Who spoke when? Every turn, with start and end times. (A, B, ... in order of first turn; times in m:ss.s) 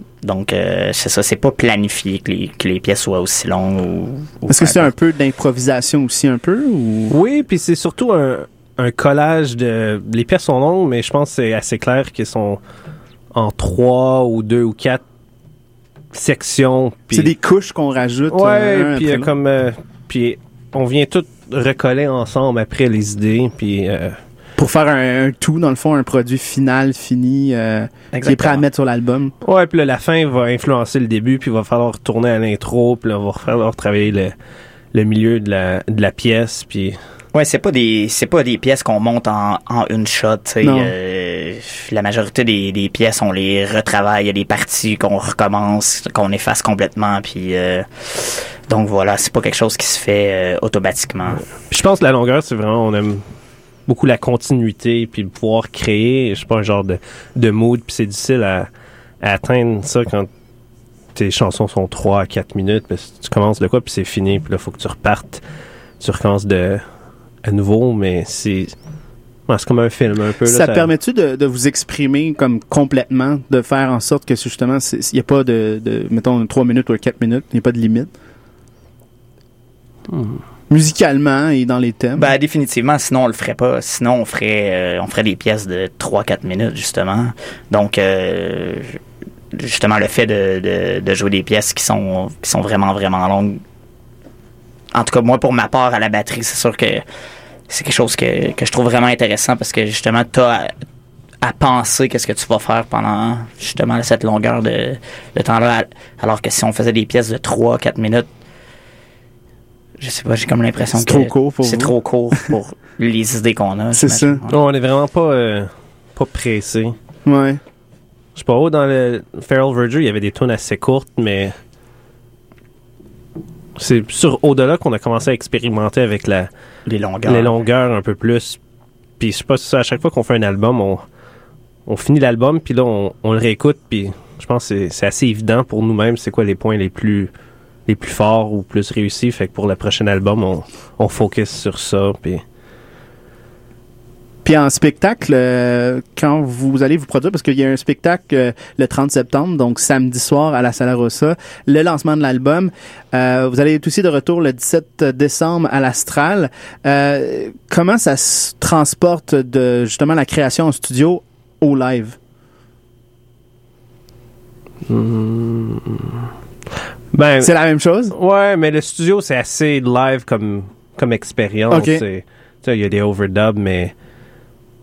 0:00.2-0:04.9 A
0:04.5-0:07.2 B
0:07.1-0:12.6 C
0:13.3-0:15.0 C
0:16.1-0:17.3 C
0:17.1-0:19.3 B
0:18.3-0:24.2 C
0:24.6-0:29.3 B
0:28.1-0:28.6 A
0:29.4-0:34.3 C
0:34.9-0:37.0 C
0:37.3-0:51.4 A
0:40.6-0:40.9 B
0:51.7-0:53.2 C
0:53.9-0:58.7 C
0:59.2-1:00.3 C
1:01.1-1:05.4 C
1:06.0-1:06.8 C
1:07.4-1:08.7 C
1:09.5-1:10.9 C
1:10.4-1:18.1 B
1:20.1-1:20.4 C
1:20.7-1:22.3 B
1:22.2-1:29.0 A
1:29.5-1:33.6 A
1:34.9-1:37.0 A
1:37.7-1:40.7 A
1:41.4-1:48.3 A
1:50.0-1:54.6 A
1:50.9-1:51.9 B
1:53.9-1:54.4 B
1:54.5-1:56.9 C
1:57.2-1:57.6 B
1:58.4-2:01.6 C
2:03.8-2:06.5 C
2:06.9-2:07.5 A
2:07.2-2:08.6 C
2:09.2-2:11.0 C
2:11.9-2:17.3 C
2:17.9-2:22.4 C
2:24.4-2:42.2 B
2:44.9-2:46.3 C
2:47.1-2:47.5 C
2:47.4-2:48.1 B
2:48.1-2:53.9 C
2:51.7-2:52.0 B